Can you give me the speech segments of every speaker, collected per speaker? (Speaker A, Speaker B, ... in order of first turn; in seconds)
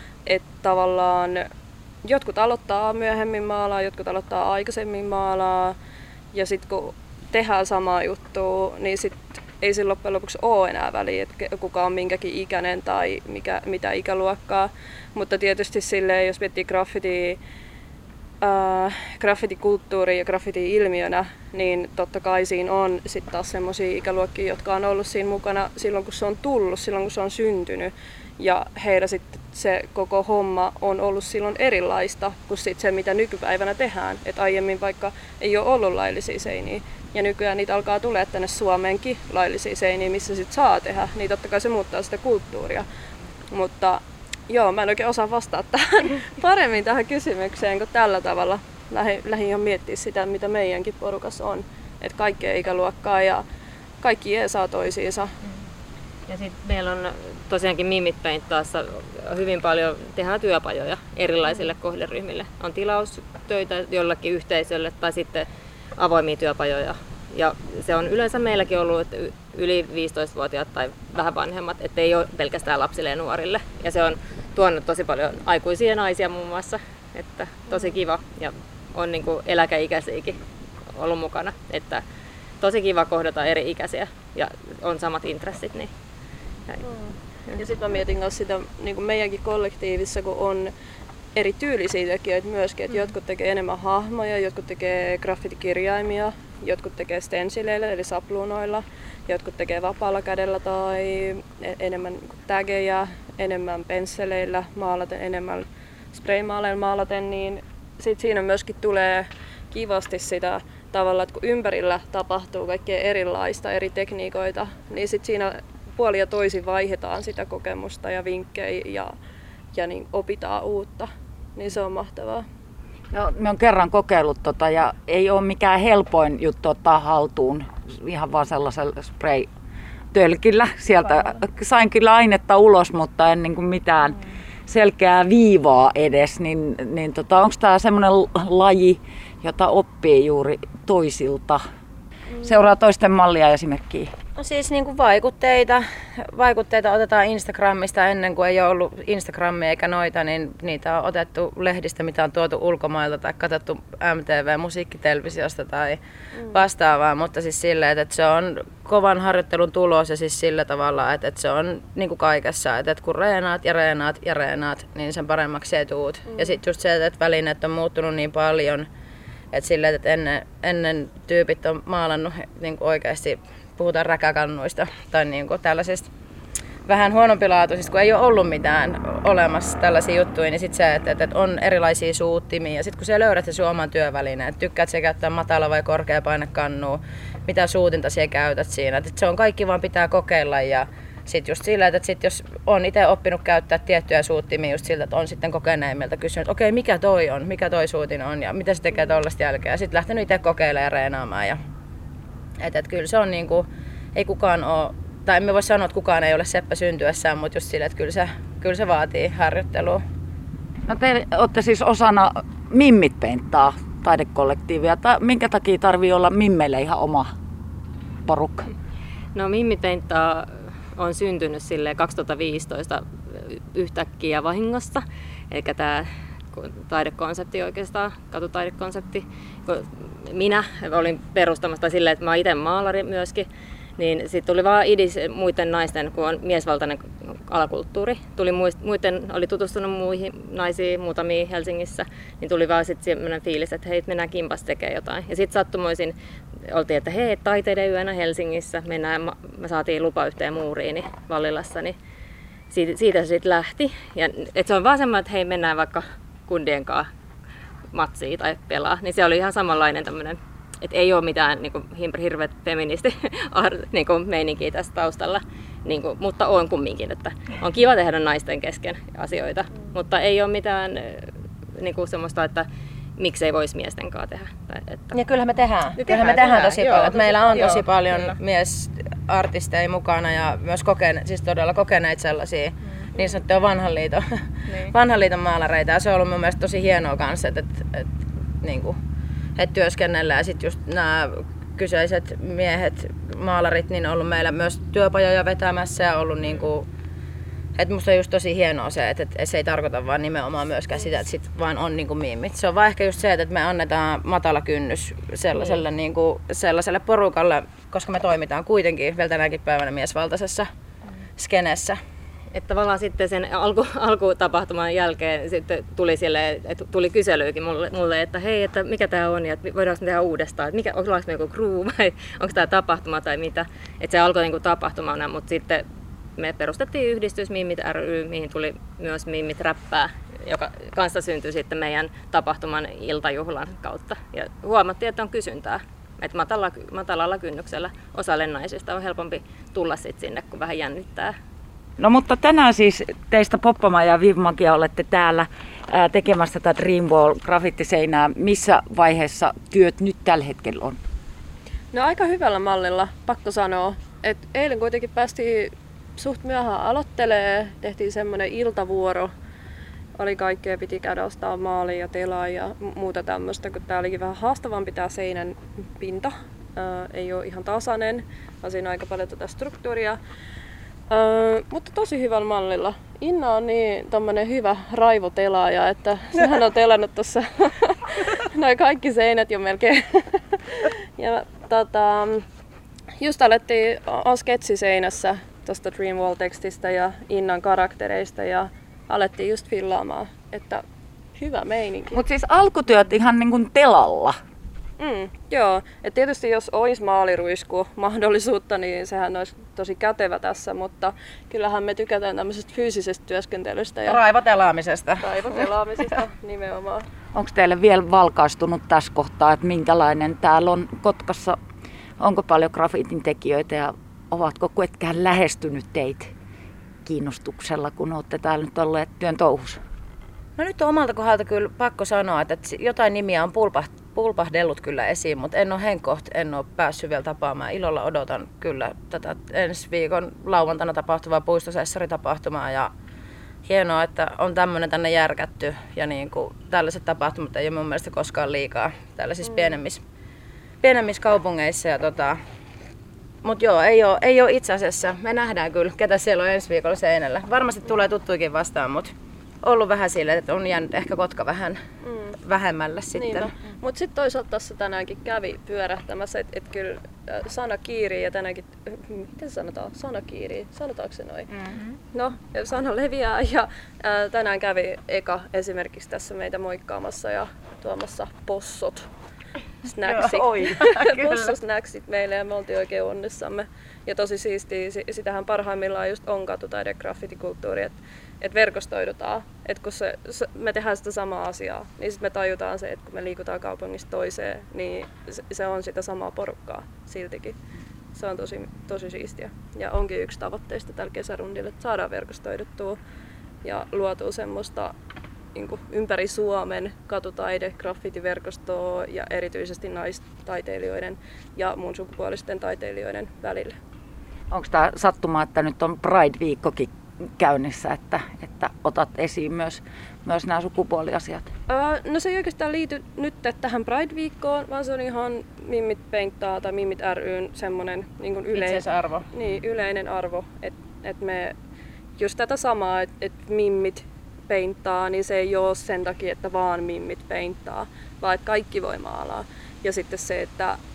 Speaker A: 0.2-1.4, 2.0-5.8, 6.3-17.4, 18.4-42.8, 43.5-53.4, 54.0-55.3, 86.8-90.7, 91.3-119.1, 119.7-122.4, 166.3-166.6, 351.9-359.3, 360.2-370.2, 371.1-382.4, 383.2-390.8, 391.4-392.2, 395.0-404.2, 405.2-407.1, 452.0-452.4, 453.1-461.5, 462.1-469.1, 469.8-487.6, 488.1-493.0, 493.6-494.9, 495.5-503.7, 511.7-521.5, 522.2-530.8
Speaker B: 56.3-80.4, 80.9-82.0, 82.6-85.9, 219.3-246.1, 246.7-251.9, 252.7-257.1, 257.9-272.6, 273.2-275.1, 276.0-278.3, 305.5-305.8, 312.5-325.8, 326.4-341.3
Speaker C: 123.1-129.5, 130.1-141.6, 142.4-144.1, 210.9-217.3, 218.2-218.7, 342.0-351.0, 392.1-394.4, 407.3-411.6, 412.2-416.3, 417.1-419.8, 504.5-511.5
Speaker D: 144.4-156.0, 156.5-168.9, 169.5-176.1, 176.8-201.6, 202.6-210.0, 275.1-284.2, 284.8-289.0, 289.6-296.9, 297.8-310.7, 311.4-312.0, 404.1-405.2, 420.6-432.9, 433.7-440.0, 440.8-442.4, 443.4-449.1, 449.6-451.8, 452.4-453.5, 470.1-471.4, 518.5-519.2